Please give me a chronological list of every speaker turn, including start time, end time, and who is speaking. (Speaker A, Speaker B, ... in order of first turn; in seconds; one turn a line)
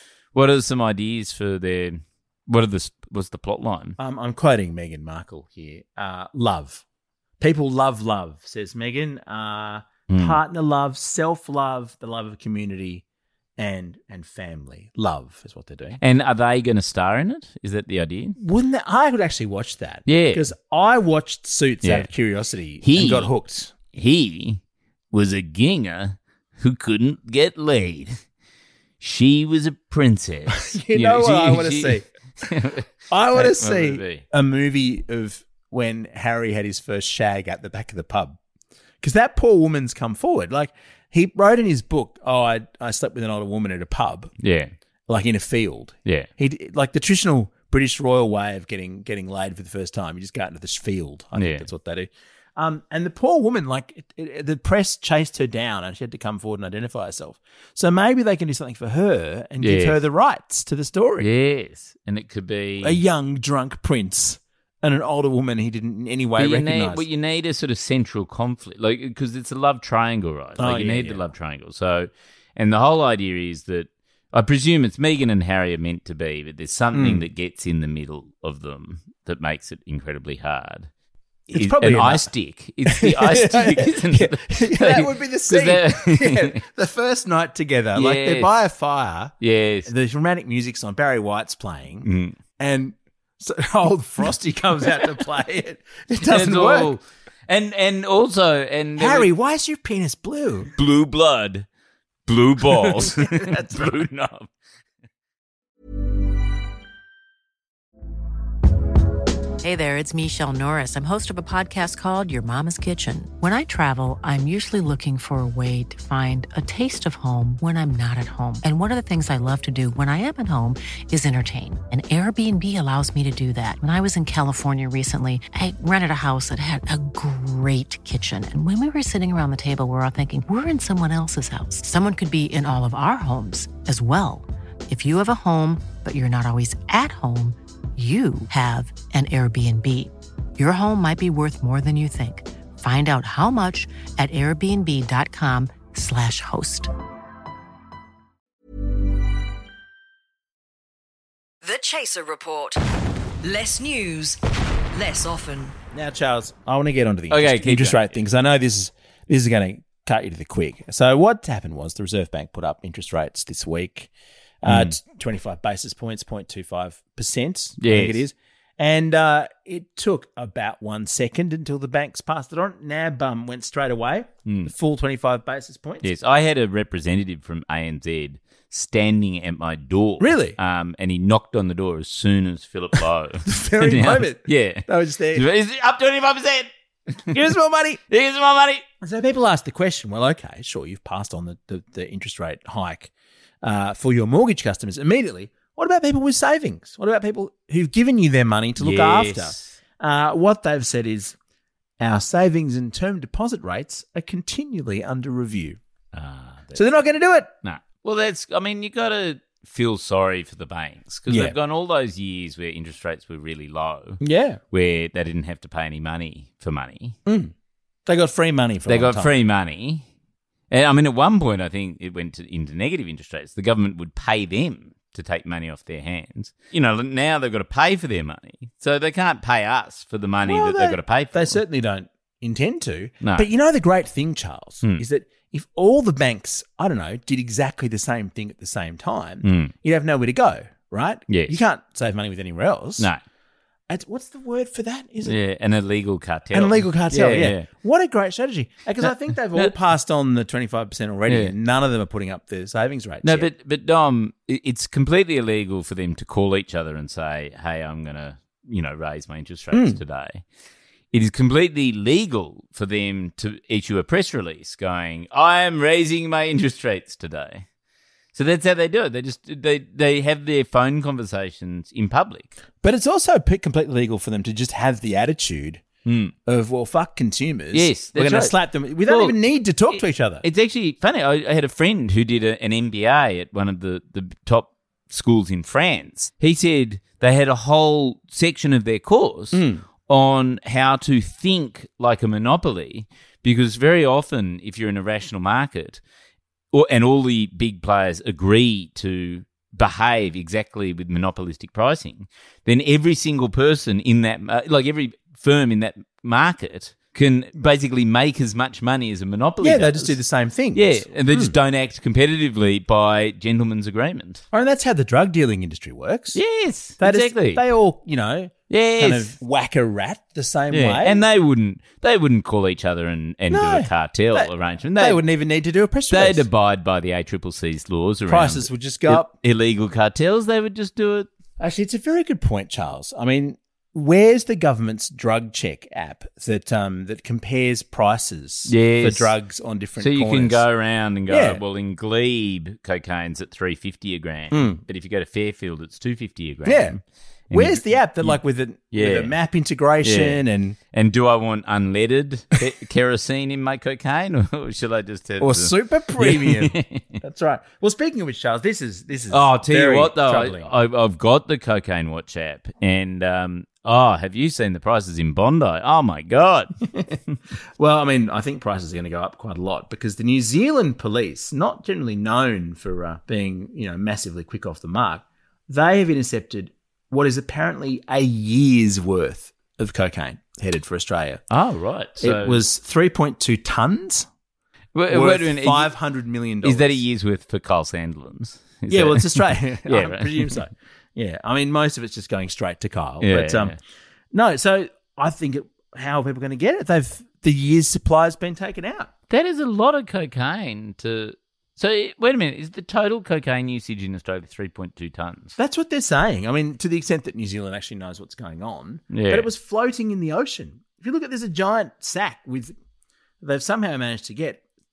Speaker A: 0.3-4.0
Speaker B: 4.0-6.8
Speaker B: 7.4-13.0
Speaker A: 10.1-10.4
Speaker B: 13.6-16.0
Speaker A: 16.0-18.4
Speaker B: 18.4-23.8
Speaker A: 20.1-20.4
Speaker A: 21.8-22.1
Speaker A: 22.8-23.3
Speaker A: 23.9-24.6
Speaker A: 25.1-28.2
Speaker A: 29.0-34.2
Speaker B: 30.5-32.0
Speaker B: 33.1-38.4
Speaker B: 39.0-44.3
Speaker A: 44.4-44.7
Speaker B: 45.1-61.3
Speaker A: 51.4-51.7
Speaker A: 59.6-60.0
Speaker A: 61.2-63.0
Speaker B: 62.8-67.1
Speaker A: 66.4-80.9
Speaker B: 70.6-71.2
Speaker B: 76.9-77.2
Speaker B: 81.5-82.3
Speaker A: 81.5-86.6
Speaker B: 82.9-97.0
Speaker A: 87.9-88.5
Speaker A: 89.4-89.9
Speaker A: 92.0-92.3
Speaker A: 96.2-99.3
Speaker B: 99.0-100.7
Speaker A: 100.8-101.7
Speaker A: 102.3-104.5
Speaker B: 102.7-103.9
Speaker C: 109.6-146.9
Speaker D: 151.6-152.8
Speaker D: 153.4-154.4
Speaker D: 154.9-155.7
Speaker B: 155.9-164.1
Speaker A: 157.3-158.2
Speaker B: 164.6-176.1
Speaker A: 164.7-164.9
Speaker A: 167.8-168.2
Speaker A: 174.5-174.7
Speaker A: 176.0-186.7
Speaker B: 180.2-180.6
Speaker B: 183.5-185.5
Speaker B: 187.3-188.0
Speaker A: 188.1-188.8
Speaker B: 189.0-193.1
Speaker B: 193.6-201.3
Speaker A: 198.8-199.7
Speaker B: 202.0-205.8
Speaker A: 206.1-206.9
Speaker B: 206.7-207.5
Speaker A: 207.6-214.2
Speaker B: 211.3-211.5
Speaker B: 214.2-214.6
Speaker A: 214.7-217.2
Speaker B: 217.3-217.5
Speaker B: 218.1-219.3
Speaker A: 218.9-220.0
Speaker A: 220.7-231.6
Speaker B: 230.4-243.1
Speaker A: 233.2-233.5
Speaker A: 239.4-239.7
Speaker A: 241.3-241.6
Speaker B: 243.9-245.4
Speaker A: 245.2-247.7
Speaker B: 246.5-253.5
Speaker A: 249.0-249.8
Speaker A: 251.3-251.5
Speaker A: 253.2-260.4
Speaker B: 259.7-260.0
Speaker A: 261.1-267.6
Speaker A: 268.3-272.5
Speaker B: 272.8-275.9
Speaker A: 276.1-276.3
Speaker B: 276.4-280.4
Speaker A: 277.7-296.0
Speaker B: 289.5-289.8
Speaker A: 296.7-314.4
Speaker B: 309.6-311.6
Speaker B: 314.5-316.4
Speaker A: 316.3-317.6
Speaker B: 317.0-321.3
Speaker A: 318.7-319.4
Speaker A: 320.7-325.2
Speaker B: 323.5-326.5
Speaker A: 326.1-331.3
Speaker B: 328.3-329.3
Speaker B: 331.6-340.7
Speaker A: 338.7-339.3
Speaker A: 340.0-348.4
Speaker B: 341.3-341.6
Speaker B: 344.5-344.8
Speaker B: 346.6-347.0
Speaker B: 347.5-350.8
Speaker A: 348.9-349.4
Speaker A: 350.0-350.4
Speaker A: 350.9-357.1
Speaker B: 355.4-360.7
Speaker A: 359.3-366.8
Speaker B: 366.9-367.2
Speaker B: 367.8-381.4
Speaker A: 381.5-382.6
Speaker B: 382.2-384.3
Speaker A: 384.9-385.9
Speaker B: 385.1-387.0
Speaker A: 386.6-390.6
Speaker B: 388.9-393.8
Speaker A: 393.2-393.8
Speaker B: 394.3-399.1
Speaker A: 399.3-405.5
Speaker B: 405.6-412.7
Speaker A: 409.1-409.5
Speaker B: 413.4-414.6